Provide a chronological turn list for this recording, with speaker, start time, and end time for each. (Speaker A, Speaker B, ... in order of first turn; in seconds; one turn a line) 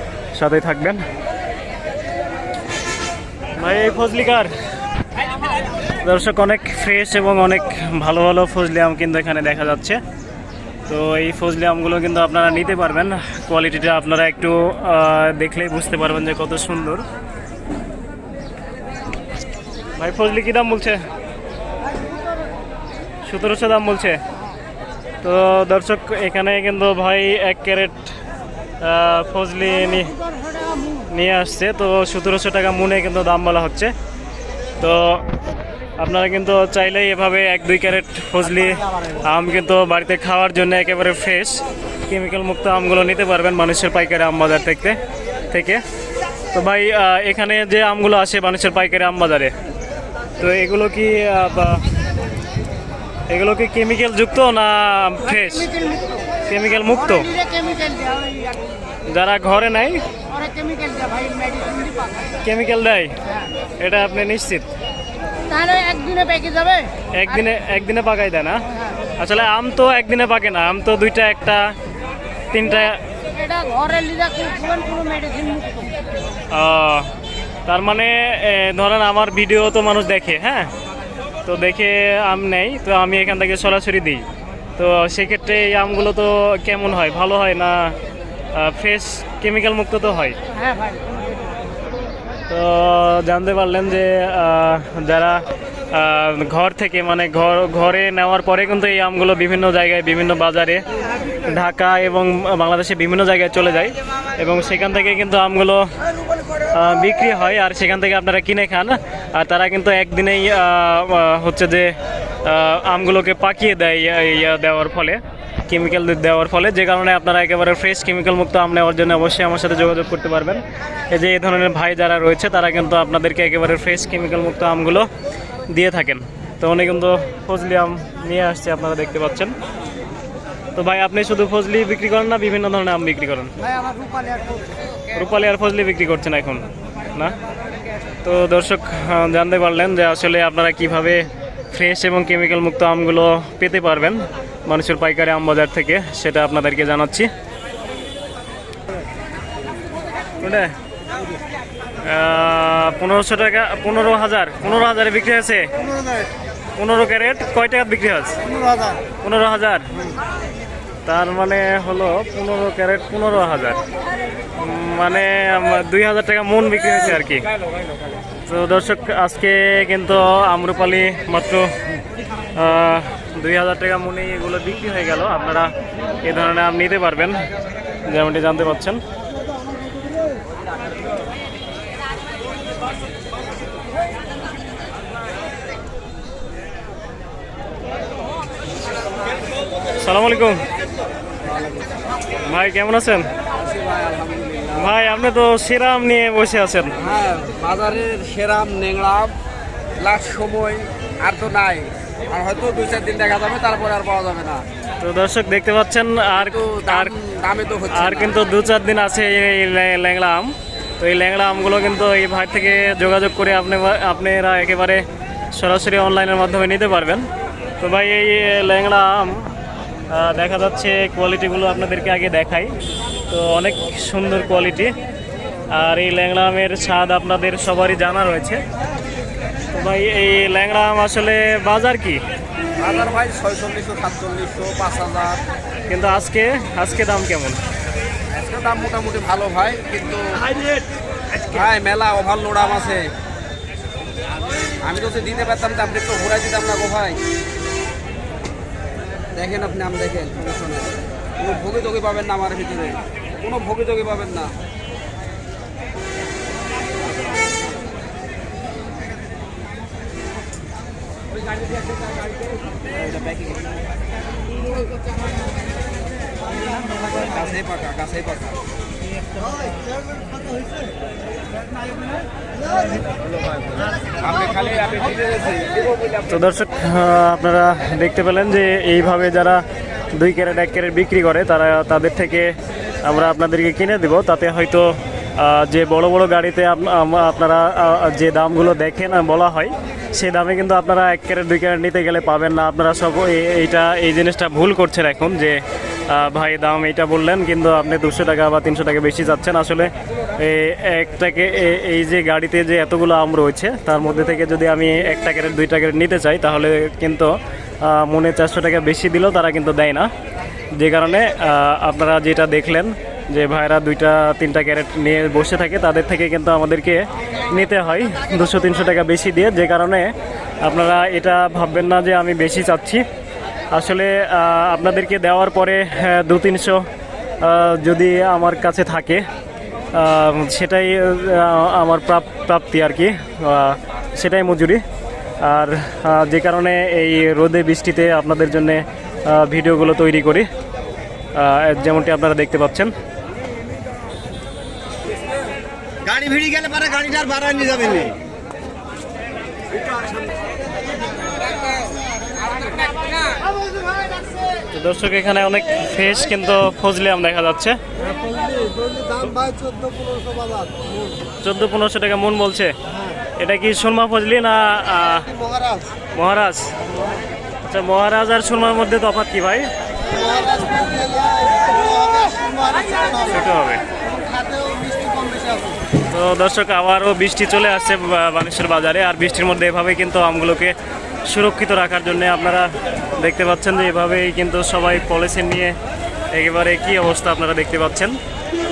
Speaker A: 0.3-1.0
Speaker A: 3.6-4.5
Speaker A: 6.0-10.0
Speaker A: 10.9-17.1
Speaker A: 20.0-21.0
Speaker A: 23.2-24.2
Speaker A: 25.2-28.1
Speaker A: 28.8-30.2
Speaker A: 30.9-33.9
Speaker A: 34.8-35.3
Speaker A: 36.0-45.0
Speaker A: 45.5-45.8
Speaker A: 46.5-49.5
Speaker A: 50.4-51.9
Speaker A: 53.3-55.8
Speaker B: 55.9-56.2
Speaker A: 56.4-57.4
Speaker B: 57.4-58.6
Speaker A: 59.0-60.0
Speaker B: 60.3-62.3
Speaker A: 62.4-63.2
Speaker A: 63.8-64.7
Speaker B: 65.4-66.9
Speaker A: 67.1-71.7
Speaker A: 72.5-73.0
Speaker B: 73.3-76.0
Speaker A: 76.5-77.1
Speaker A: 77.7-80.7
Speaker A: 81.5-84.2
Speaker A: 84.8-88.0
Speaker A: 88.5-90.4
Speaker A: 92.5-100.8
Speaker A: 101.4-106.0
Speaker A: 106.7-125.1
Speaker A: 125.7-129.5
Speaker A: 130.7-133.7
Speaker B: 133.9-134.6
Speaker A: 135.1-137.3
Speaker A: 138.2-147.3
Speaker A: 150.4-150.7
Speaker A: 152.0-155.7
Speaker A: 156.8-158.5
Speaker A: 159.2-159.9
Speaker A: 161.0-163.8
Speaker A: 164.6-167.5
Speaker A: 168.4-171.7
Speaker A: 172.5-177.4
Speaker A: 178.0-179.0
Speaker A: 190.0-190.7
Speaker C: 191.4-192.0
Speaker A: 192.4-193.3
Speaker C: 193.5-194.9
Speaker A: 194.7-197.0
Speaker C: 196.9-199.4
Speaker C: 200.0-204.7
Speaker A: 205.0-207.1
Speaker C: 206.4-208.4
Speaker A: 207.9-217.3
Speaker A: 217.8-219.5
Speaker A: 220.1-222.7
Speaker A: 223.3-224.9
Speaker A: 225.7-228.6
Speaker A: 229.7-232.2
Speaker C: 232.8-235.4
Speaker A: 235.9-237.6
Speaker C: 238.3-240.5
Speaker C: 241.3-243.1
Speaker C: 244.8-247.2
Speaker C: 249.3-254.5
Speaker C: 262.9-263.8
Speaker C: 267.2-268.6
Speaker C: 274.2-276.3
Speaker A: 276.3-310.1
Speaker A: 310.7-323.1
Speaker A: 323.7-326.9
Speaker A: 327.4-329.2
Speaker A: 329.9-334.8
Speaker A: 335.4-340.5
Speaker A: 341.3-342.9
Speaker D: 346.0-348.2
Speaker A: 354.7-357.8
Speaker D: 358.3-360.7
Speaker A: 361.4-362.8
Speaker A: 363.4-366.7
Speaker A: 367.6-369.7
Speaker D: 370.3-372.9
Speaker A: 373.0-373.8
Speaker D: 374.3-375.7
Speaker A: 376.1-380.7
Speaker A: 381.2-385.8
Speaker A: 386.3-388.2